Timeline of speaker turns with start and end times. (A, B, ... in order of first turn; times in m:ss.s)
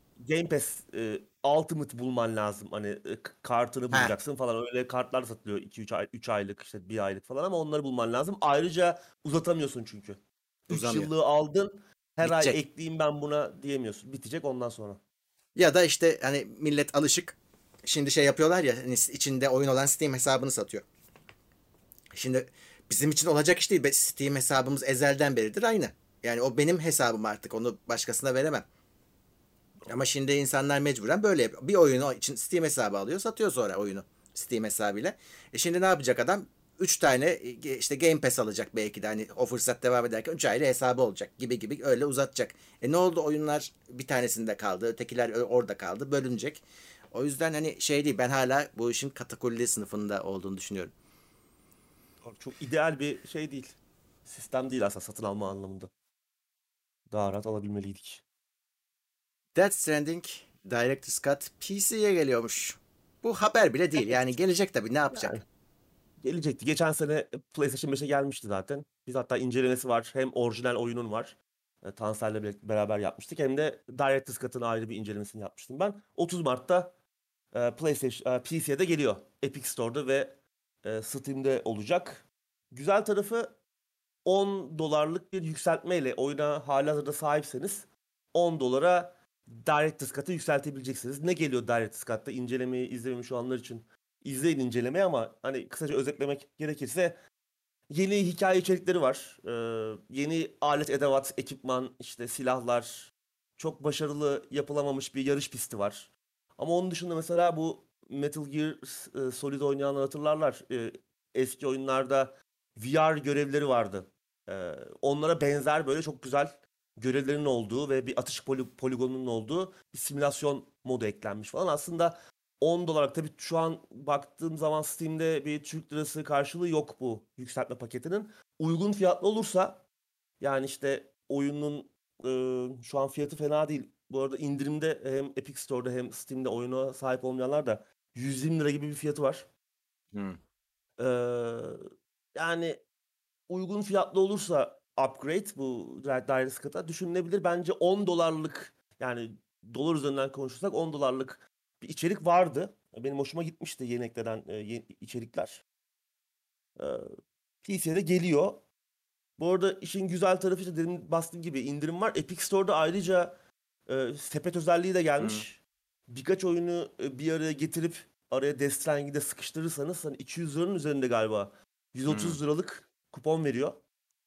0:00.2-0:10.2 A
0:10.7-0:11.1 B
0:10.7-0:15.0 A
0:12.2-0:12.6 B
0:15.6-0:20.8 B
0:22.1-0:28.7 B
0:29.9-0:50.9 B
0:52.2-0:55.9 A
0:57.1-0:58.2 A
0:59.6-1:05.4 B
1:04.0-1:04.3 A
1:05.1-1:05.4 A
1:06.2-1:17.0 A
1:17.5-1:23.6 A
1:24.2-1:37.2 A
1:37.9-2:09.8 A
2:10.4-2:19.5 A
2:20.1-2:20.4 B
2:21.0-2:21.8 A
2:22.4-2:22.8 A
2:23.5-2:35.6 A
2:36.8-2:38.6 A
2:39.4-2:43.4 A
2:43.9-2:53.8 A
2:45.2-2:45.4 B
2:52.1-2:52.4 B